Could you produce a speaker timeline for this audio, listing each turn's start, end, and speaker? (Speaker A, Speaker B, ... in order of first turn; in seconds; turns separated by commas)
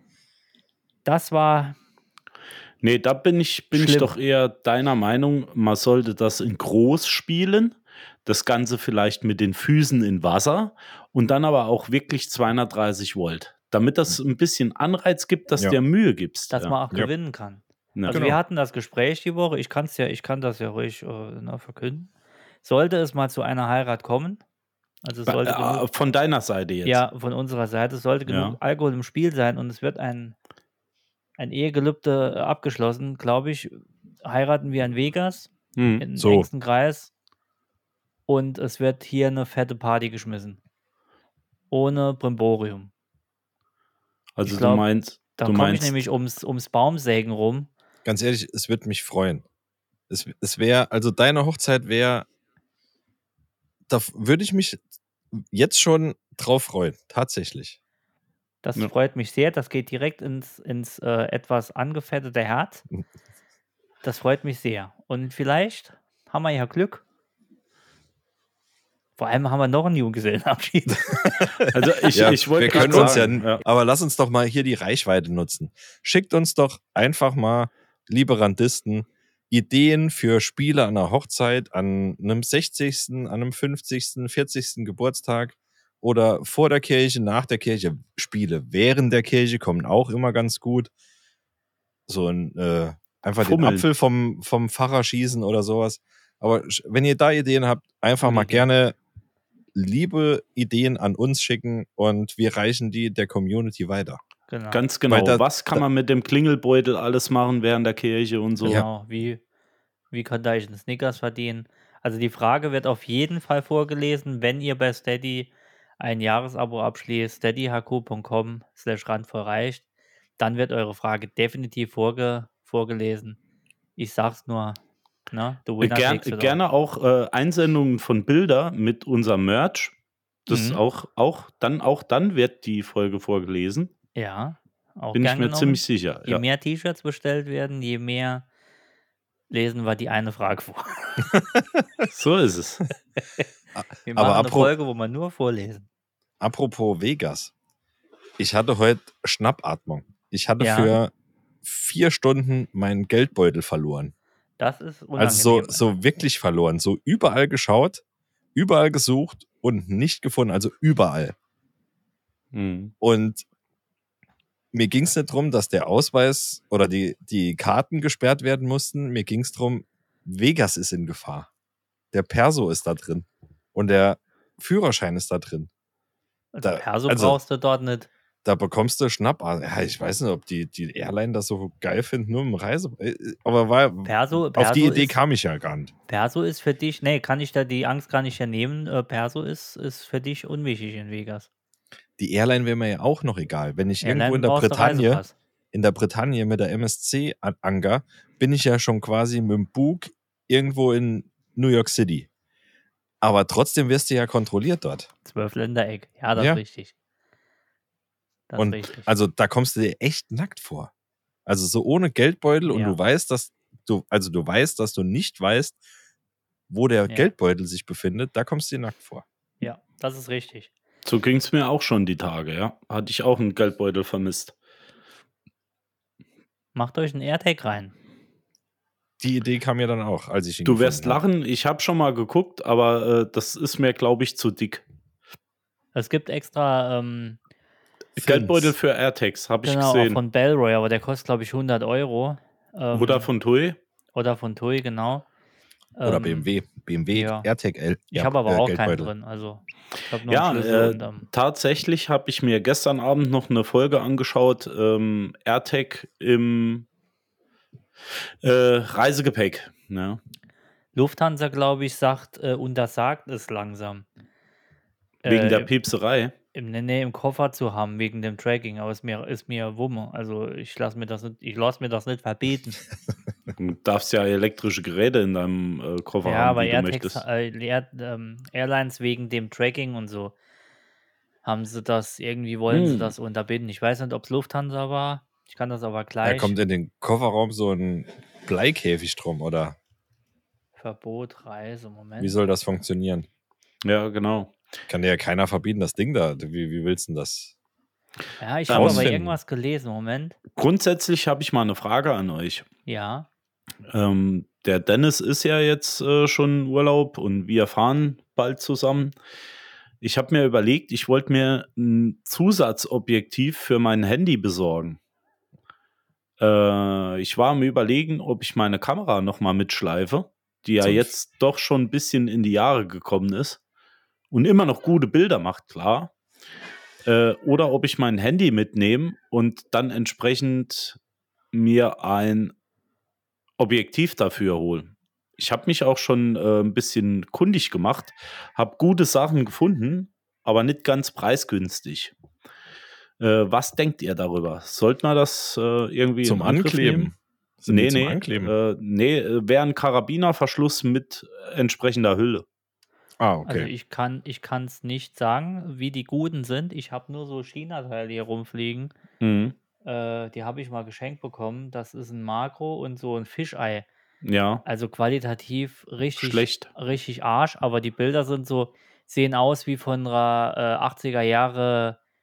Speaker A: 1.0-1.8, Speaker B: 2.8-16.8, Speaker A: 3.7-4.1, Speaker A: 16.5-22.1, Speaker B: 17.9-18.3, Speaker C: 18.1-18.4, Speaker A: 22.6-24.4, Speaker A: 25.0-25.8, Speaker B: 25.3-27.0, Speaker A: 26.8-30.4, Speaker B: 28.3-28.6, Speaker A: 31.4-37.1, Speaker B: 35.8-36.0, Speaker C: 36.1-36.5, Speaker A: 38.3-40.6, Speaker A: 41.7-42.9, Speaker B: 44.4-46.0, Speaker A: 44.4-47.7, Speaker C: 48.0-49.4, Speaker C: 50.1-52.2, Speaker C: 53.9-54.8, Speaker C: 55.3-57.8, Speaker A: 58.6-62.8, Speaker A: 64.0-67.0, Speaker A: 69.2-71.5, Speaker C: 71.0-90.9, Speaker B: 71.7-73.6, Speaker A: 72.3-73.3, Speaker C: 92.1-99.0, Speaker B: 93.4-93.9, Speaker A: 98.2-98.6, Speaker C: 99.7-104.2, Speaker A: 104.5-104.8, Speaker B: 104.7-108.8, Speaker C: 105.1-105.8, Speaker A: 108.7-109.4, Speaker A: 110.1-119.8, Speaker A: 120.4-123.4, Speaker A: 124.0-124.8, Speaker A: 125.3-126.6, Speaker B: 125.8-129.9, Speaker B: 130.5-133.9, Speaker A: 130.5-130.8, Speaker A: 134.1-138.4, Speaker B: 135.1-136.4, Speaker A: 139.5-141.3, Speaker B: 142.1-142.8, Speaker C: 143.7-144.7, Speaker A: 144.0-145.8, Speaker C: 146.4-147.5, Speaker C: 148.4-151.1, Speaker A: 150.6-151.0, Speaker C: 151.6-154.1, Speaker A: 154.6-155.8, Speaker C: 155.2-158.0, Speaker C: 158.5-161.3, Speaker B: 162.5-162.9, Speaker C: 163.0-163.4, Speaker C: 164.7-171.5, Speaker C: 172.1-175.7, Speaker A: 176.5-178.1, Speaker C: 176.6-177.4, Speaker C: 178.4-185.9, Speaker A: 184.0-185.2, Speaker A: 186.1-191.5, Speaker C: 192.2-195.2, Speaker A: 194.0-195.3, Speaker C: 195.7-202.3, Speaker C: 203.2-205.1, Speaker A: 205.2-206.9, Speaker C: 206.3-206.6, Speaker A: 208.5-209.1, Speaker C: 208.6-210.9, Speaker C: 211.4-215.8, Speaker A: 212.7-213.0, Speaker C: 216.7-219.2, Speaker A: 219.6-220.7, Speaker B: 221.0-224.5, Speaker A: 226.7-227.9, Speaker C: 229.2-231.2, Speaker B: 230.6-234.8, Speaker A: 235.9-237.4, Speaker C: 238.2-238.7, Speaker B: 238.2-240.2, Speaker A: 239.6-243.3, Speaker B: 242.9-243.8, Speaker A: 244.1-245.2, Speaker A: 245.9-246.5, Speaker C: 246.0-249.1, Speaker A: 247.1-247.5, Speaker A: 248.1-251.2, Speaker B: 250.3-256.9, Speaker B: 258.4-260.2, Speaker A: 260.9-264.1, Speaker A: 265.2-265.7, Speaker B: 265.2-266.3, Speaker A: 266.5-272.8, Speaker B: 273.6-277.2, Speaker A: 276.2-280.3, Speaker A: 281.4-286.6, Speaker B: 282.7-283.1, Speaker C: 286.2-289.8, Speaker A: 290.8-292.4, Speaker C: 292.2-293.3, Speaker B: 293.8-294.6, Speaker C: 294.9-297.5, Speaker A: 298.4-300.4, Speaker B: 298.7-299.1, Speaker C: 298.7-299.4, Speaker B: 300.6-302.6, Speaker A: 302.9-303.3, Speaker B: 303.9-309.1, Speaker B: 310.0-315.0, Speaker B: 316.4-323.6, Speaker C: 320.8-321.1, Speaker B: 324.3-326.1, Speaker B: 327.0-331.0, Speaker B: 331.5-332.5, Speaker B: 333.6-342.1, Speaker B: 343.2-347.1, Speaker C: 346.2-348.5, Speaker B: 347.7-352.4, Speaker C: 353.2-353.7, Speaker A: 353.4-358.9, Speaker B: 359.2-359.5, Speaker A: 359.8-363.9, Speaker B: 364.2-364.6, Speaker A: 364.6-372.0, Speaker B: 366.2-366.7